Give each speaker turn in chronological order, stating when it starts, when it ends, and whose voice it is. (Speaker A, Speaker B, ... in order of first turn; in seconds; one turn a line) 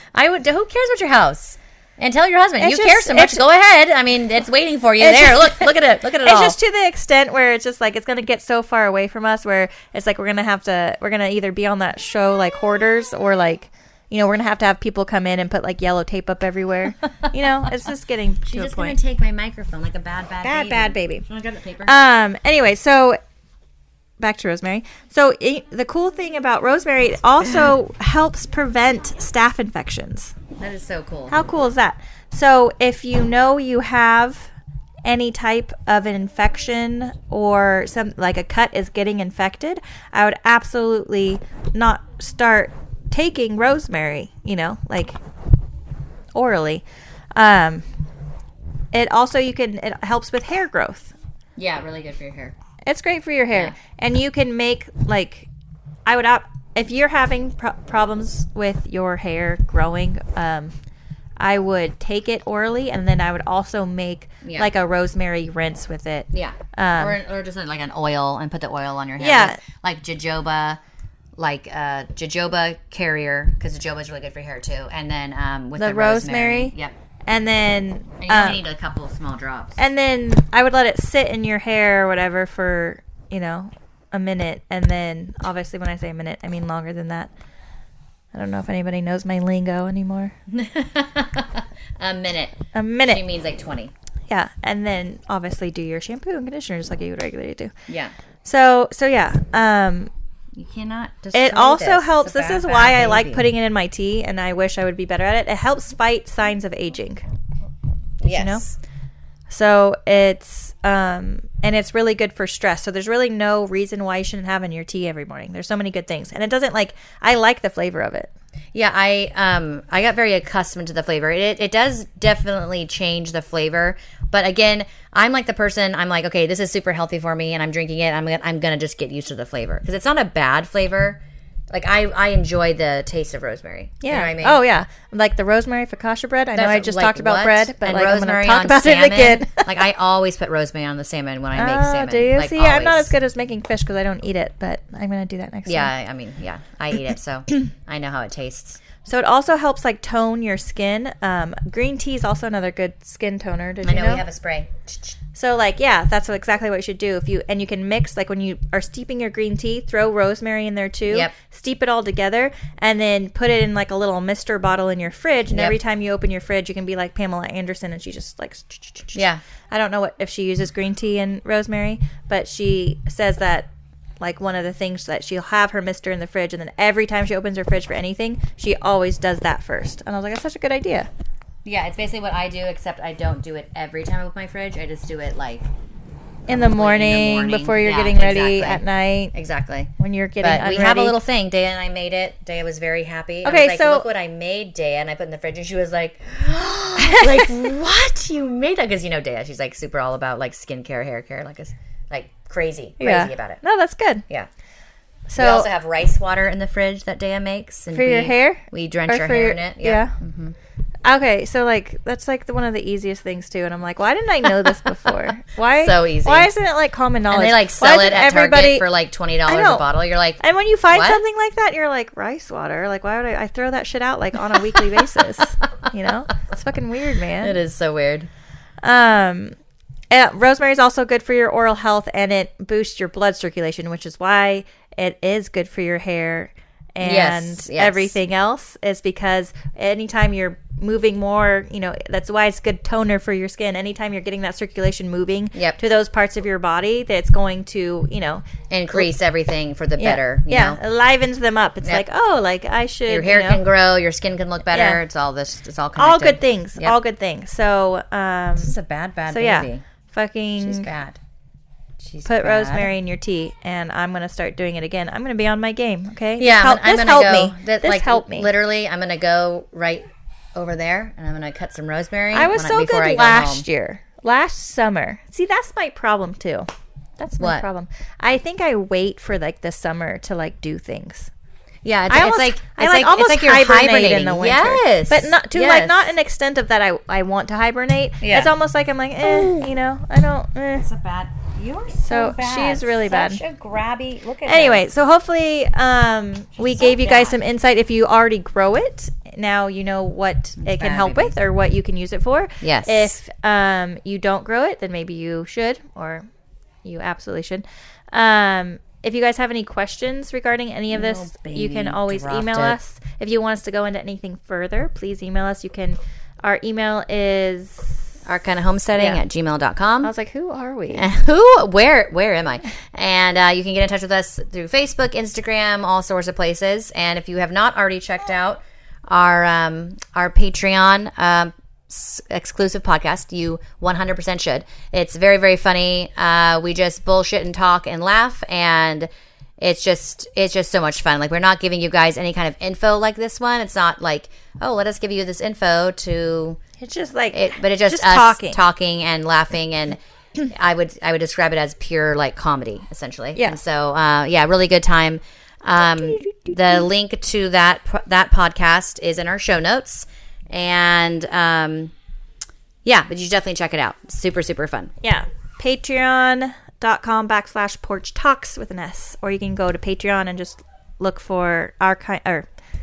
Speaker A: 0.1-6.6
Speaker B: 2.6-3.4
Speaker B: 5.0-19.0
Speaker A: 17.2-17.8
Speaker A: 18.4-22.0
Speaker B: 20.4-21.2
Speaker B: 21.9-23.2
Speaker B: 24.2-30.4
Speaker A: 30.6-31.4
Speaker B: 31.3-34.5
Speaker B: 35.0-45.2
Speaker B: 46.3-47.9
Speaker B: 48.9-51.1
Speaker A: 51.6-52.5
Speaker B: 52.9-55.5
Speaker B: 56.0-60.7
Speaker B: 61.4-67.2
Speaker A: 64.4-64.7
Speaker A: 66.3-70.8
Speaker B: 69.2-69.6
Speaker A: 71.4-76.9
Speaker B: 75.8-76.7
Speaker B: 77.3-78.6
Speaker A: 78.2-79.8
Speaker B: 79.8-87.3
Speaker B: 88.3-90.3
Speaker A: 90.5-93.9
Speaker B: 92.7-93.2
Speaker B: 94.3-97.7
Speaker A: 97.9-98.1
Speaker B: 98.5-100.1
Speaker A: 100.5-103.5
Speaker B: 101.3-107.2
Speaker A: 108.2-108.8
Speaker B: 108.3-108.6
Speaker B: 109.5-118.3
Speaker A: 118.7-131.2
Speaker A: 131.7-134.6
Speaker B: 134.0-139.8
Speaker A: 136.6-143.1
Speaker B: 141.6-145.9
Speaker A: 145.7-148.8
Speaker B: 149.1-154.2
Speaker A: 153.8-155.2
Speaker B: 155.3-173.7
Speaker A: 161.1-161.3
Speaker A: 165.5-165.8
Speaker A: 169.1-169.4
Speaker B: 174.2-181.1
Speaker A: 181.7-185.7
Speaker A: 186.5-189.9
Speaker B: 186.5-189.3
Speaker B: 190.0-191.2
Speaker A: 190.4-203.6
Speaker B: 193.4-194.1
Speaker B: 197.0-197.6
Speaker B: 203.0-204.2
Speaker B: 205.3-205.7
Speaker A: 205.4-210.6
Speaker B: 207.9-210.2
Speaker B: 211.0-218.9
Speaker A: 215.8-216.5
Speaker A: 217.3-221.2
Speaker B: 219.5-219.9
Speaker B: 220.4-227.6
Speaker A: 227.4-228.3
Speaker B: 228.8-229.6
Speaker B: 230.1-249.1
Speaker A: 237.0-238.2
Speaker A: 248.7-250.8
Speaker B: 250.0-253.6
Speaker A: 253.1-257.0
Speaker B: 254.7-255.0
Speaker B: 256.0-258.7
Speaker A: 258.6-259.8
Speaker B: 259.3-260.9
Speaker A: 260.6-261.2
Speaker A: 262.0-262.9
Speaker B: 262.3-268.5
Speaker A: 266.4-273.6
Speaker B: 272.3-281.3
Speaker A: 277.4-277.6
Speaker A: 281.9-286.1
Speaker B: 282.1-290.9
Speaker A: 288.2-288.5
Speaker A: 290.8-294.9
Speaker B: 292.0-293.4
Speaker B: 294.4-306.3
Speaker A: 296.6-297.4
Speaker A: 300.6-301.3
Speaker A: 302.6-303.2
Speaker B: 306.8-318.1
Speaker A: 310.9-312.8
Speaker A: 318.2-320.1
Speaker B: 319.0-319.2
Speaker B: 320.0-321.0
Speaker A: 320.9-339.1
Speaker A: 339.6-346.6
Speaker B: 346.8-348.6
Speaker A: 347.3-361.9
Speaker B: 356.0-356.8
Speaker A: 362.9-364.9
Speaker B: 365.0-372.5